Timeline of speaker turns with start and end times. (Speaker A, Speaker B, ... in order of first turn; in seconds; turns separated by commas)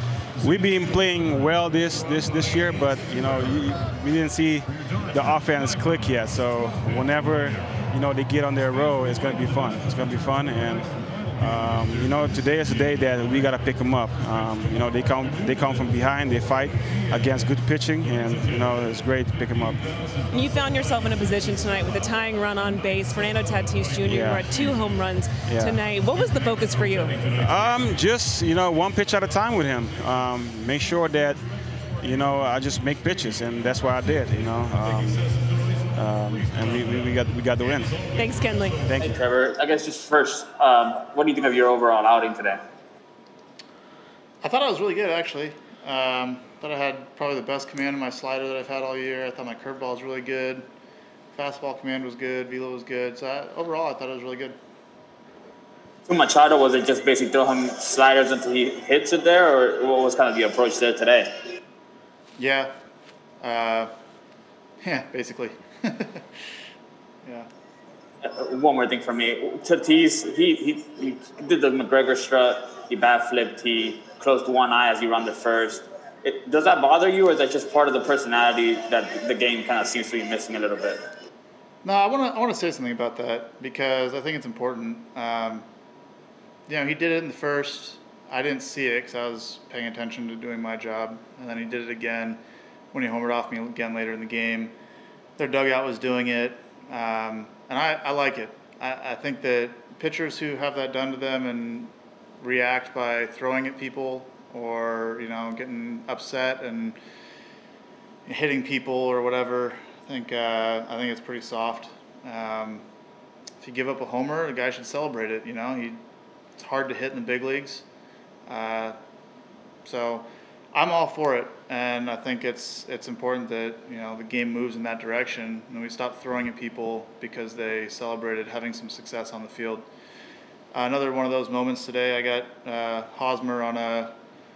Speaker A: 0.4-10.9, Speaker A: 11.4-19.8, Speaker B: 20.3-27.1, Speaker A: 24.0-24.5, Speaker A: 25.5-25.8, Speaker A: 27.3-31.4, Speaker A: 32.0-35.2, Speaker A: 35.9-38.0, Speaker B: 38.2-38.8, Speaker A: 38.8-39.2, Speaker C: 39.0-42.6, Speaker D: 44.4-50.7, Speaker D: 51.3-54.6, Speaker C: 56.1-61.3, Speaker D: 62.4-62.7, Speaker D: 63.4-63.9, Speaker D: 64.8-66.2, Speaker C: 68.2-81.0, Speaker D: 81.8-85.7, Speaker D: 86.7-94.8, Speaker D: 95.4-107.0, Speaker D: 108.2-112.8, Speaker D: 113.6-116.0, Speaker D: 116.6-117.8, Speaker D: 118.5-119.0, Speaker D: 119.8-129.9, Speaker D: 130.7-134.1